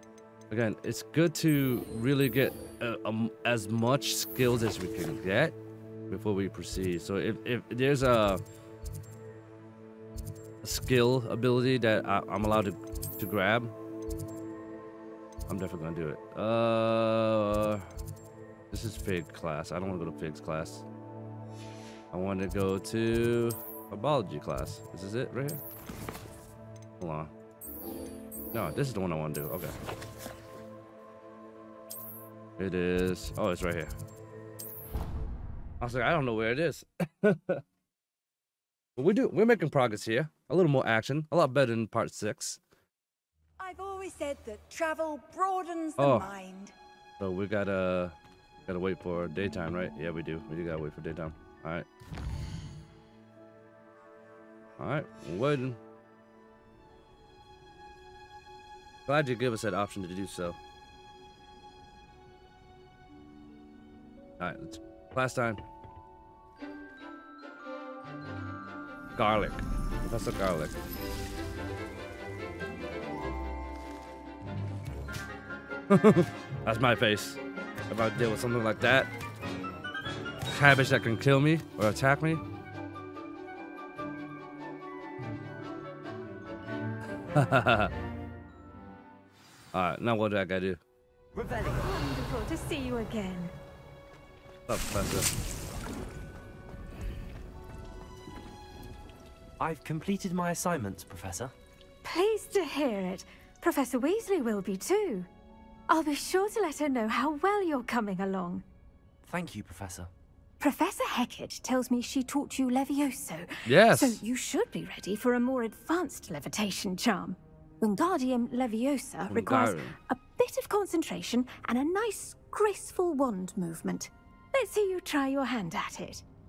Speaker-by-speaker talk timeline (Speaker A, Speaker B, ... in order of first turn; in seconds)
Speaker A: 0.5-5.5, 6.1-8.4, 10.6-13.7, 15.5-17.9, 18.7-20.8, 22.1-25.6, 27.0-27.3, 28.5-29.7, 32.6-33.9, 35.8-37.6, 39.0-42.6, 46.0-46.3, 47.2-48.1, 48.7-51.9, 54.8-55.8, 59.1-60.6, 64.4-65.6, 69.2-70.8, 75.9-79.1, 80.5-82.4, 87.3-87.9, 89.7-90.8, 94.7-95.3, 113.7-114.2, 119.3-119.9
Speaker B: 43.6-46.7
Speaker C: 91.3-91.9, 99.6-101.5, 109.2-110.1
Speaker D: 91.7-93.5, 102.0-105.3, 105.9-108.6, 110.6-126.2